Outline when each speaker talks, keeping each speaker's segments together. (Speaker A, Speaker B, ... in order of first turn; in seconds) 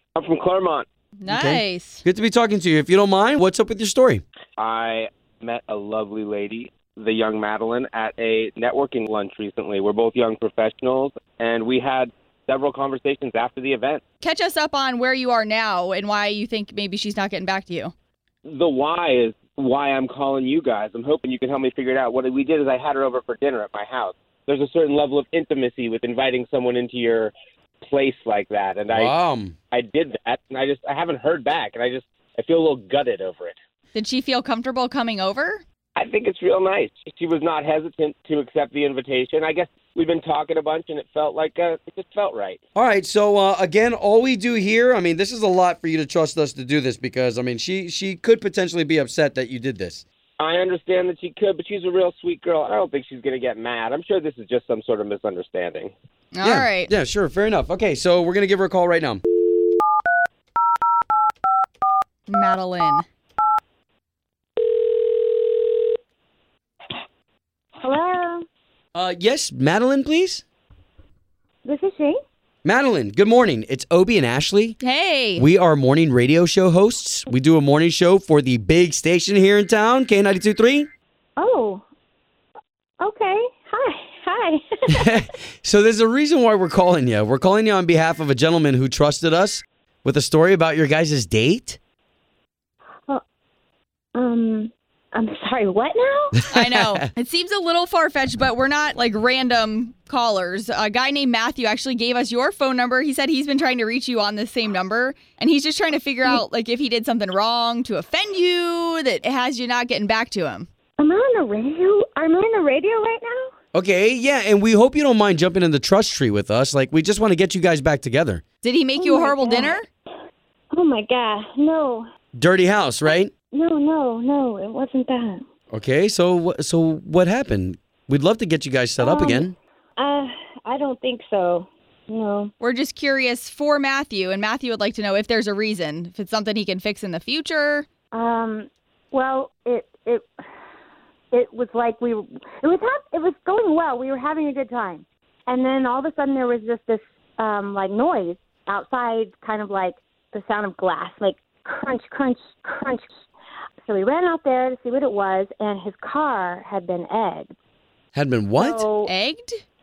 Speaker A: 0.1-0.9, 4.6-14.0, 18.4-27.3, 27.8-29.1, 29.7-33.5, 36.0-42.6, 50.4-55.9
Speaker B: 1.2-2.0, 14.2-17.9, 33.9-35.6, 56.3-56.9, 62.3-63.0, 74.8-75.5, 96.5-110.7, 118.6-119.9, 132.6-137.8, 159.0-159.6
Speaker C: 1.3-4.2, 28.9-29.5, 42.7-50.0, 56.4-59.2, 68.9-70.4, 72.6-74.8, 75.3-80.9, 84.9-91.8, 96.5-97.0, 113.7-118.4, 122.3-123.3, 125.7-129.6, 158.1-158.9
Speaker D: 67.8-68.4, 71.6-72.2, 81.4-81.8, 83.0-85.0, 94.1-96.4, 111.0-113.5, 119.0-119.8, 120.7-122.0, 123.5-125.4, 129.0-132.5, 138.1-140.3, 141.3-153.1, 153.8-157.5, 158.6-159.1